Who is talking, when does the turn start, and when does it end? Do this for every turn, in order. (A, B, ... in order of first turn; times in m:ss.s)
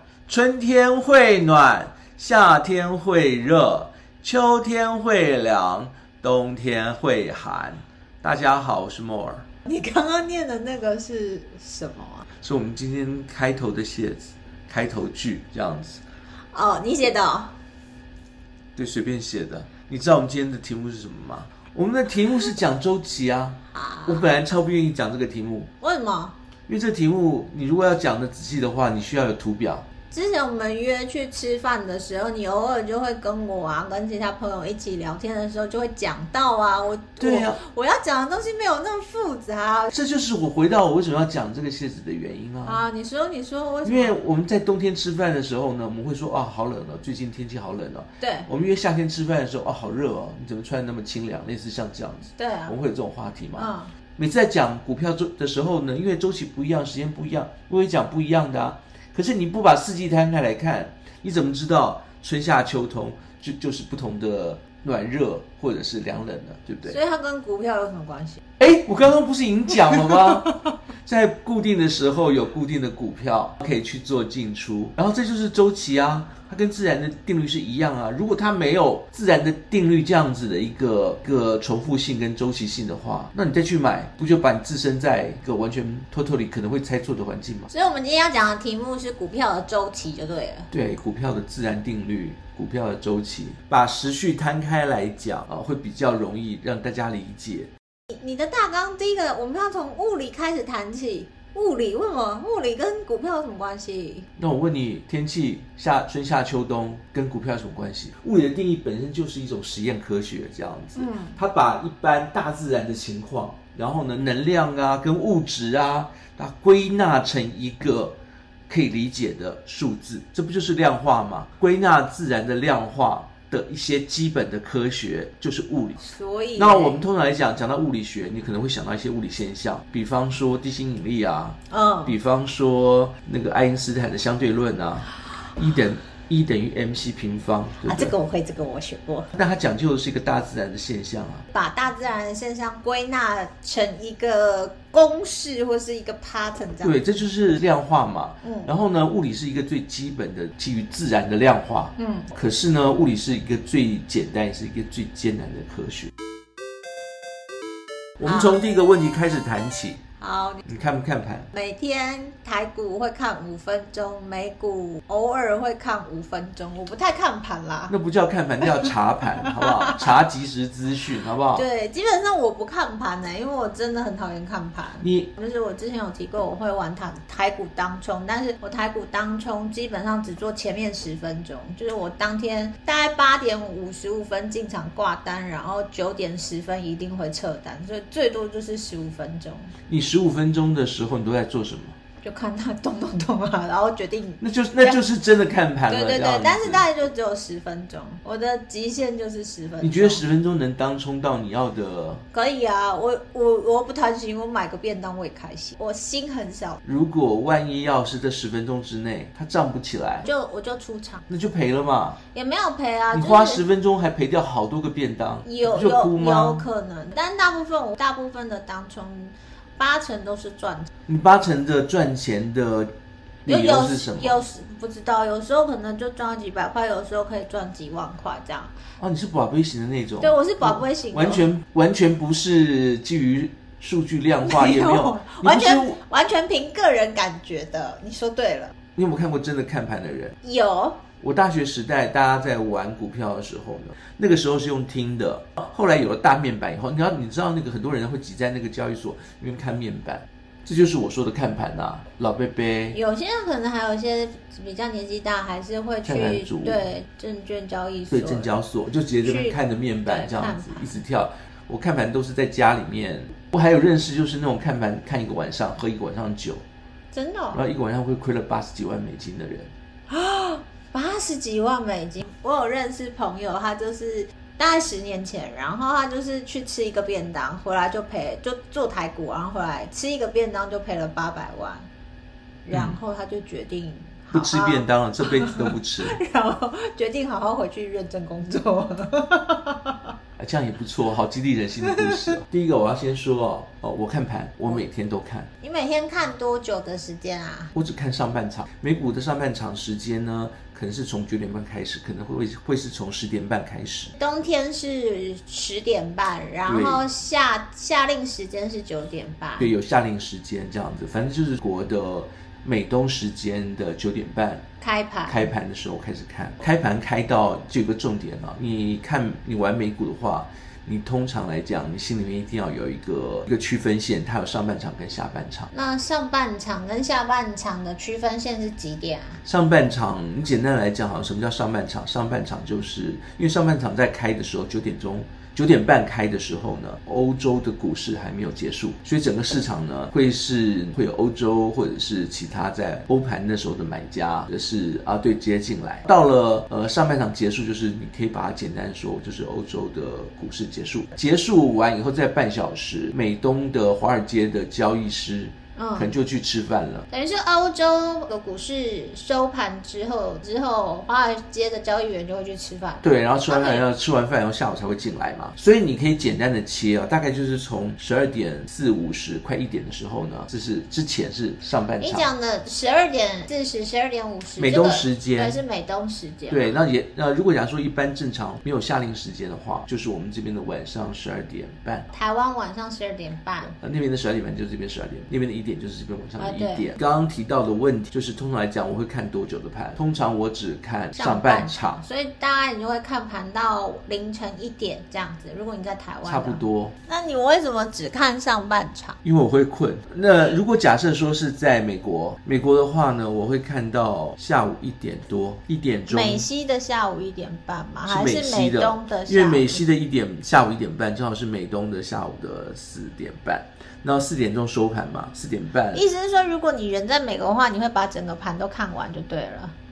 0:00.3-0:09.4 A
0:09.6-0:12.3 B
0:12.4-0:16.0 A
0:16.5-0:17.5 B
0:18.8-0:25.7 A
0:23.7-0:24.3 B
0:25.8-0:26.4 B
0:26.7-0:29.9 A
0:30.1-0:39.9 B
0:37.2-0:37.6 A
0:39.9-0:42.8 A
0:42.6-0:44.2 B
0:43.8-1:07.0 A
0:48.2-0:48.5 B
0:52.4-0:52.7 B
0:53.6-0:53.9 B
1:06.8-1:08.4 B
1:08.6-1:27.7 A
1:27.7-1:30.7 B
1:30.7-1:37.7 A
1:38.1-1:44.3 B
1:44.4-1:58.2 A
1:51.0-1:51.4 B
1:58.7-2:06.0 A
2:06.0-2:07.0 B
2:06.5-2:18.1 A
2:11.7-2:12.1 B
2:17.8-2:19.3 B
2:19.3-2:21.4 A
2:21.5-2:27.0 B
2:26.8-2:36.1 A
2:28.4-2:28.7 B
2:32.0-2:32.3 B
2:38.2-2:40.0 A
2:38.3-2:38.6 B
2:40.2-2:40.6 B
2:40.6-2:41.5 A
2:41.5-2:47.9 B
2:47.9-2:51.6 A
2:48.6-2:50.1 B
2:51.5-3:09.7 B
2:55.0-2:55.3 A
3:09.9-3:12.0 A
3:12.2-3:15.0 B
3:14.4-3:16.9 A
3:15.9-3:20.2 B
3:19.8-3:22.2 A
3:22.3-3:26.8 B
3:26.8-3:30.3 A
3:30.2-3:31.2 B
3:31.3-3:32.2 A
3:32.3-3:33.6 B
3:33.1-3:36.7 A
3:35.4-3:40.9 B
3:41.1-3:42.9 A
3:43.4-3:44.4 A
3:43.5-3:48.7 B
3:49.0-3:56.0 A
3:50.2-3:51.4 B
3:54.4-3:58.7 B
3:59.0-4:00.3 A
4:00.4-4:01.0 B
4:01.2-4:13.0 A
4:12.9-4:18.5 B
4:16.0-4:16.8 A
4:18.1-4:26.6 A
4:19.2-4:20.8 B
4:27.1-4:27.6 B
4:27.5-4:29.7 A
4:30.1-4:41.8 B
4:42.6-4:50.1 B
4:44.3-4:46.2 A
4:50.4-4:55.5 A
4:51.8-4:52.3 B
4:55.6-4:57.7 B
4:57.7-5:04.1 A
5:04.1-5:09.7 B
5:06.6-5:07.0 A
5:09.6-5:14.6 A
5:14.8-5:15.5 B
5:15.3-5:25.7 A
5:25.7-5:29.4 B
5:29.4-5:57.1 A
5:55.8-5:56.1 B
5:57.1-6:03.8 B
6:03.0-6:12.3 A
6:12.0-6:16.8 B
6:14.6-6:15.6 A
6:16.5-6:22.1 A
6:22.1-6:23.8 B
6:23.8-6:32.0 A
6:26.4-6:26.9 B
6:31.2-6:39.2 B
6:36.2-6:36.9 A
6:39.2-6:46.4 A
6:46.1-6:49.8 B
6:48.1-6:56.0 A
6:55.9-6:59.7 B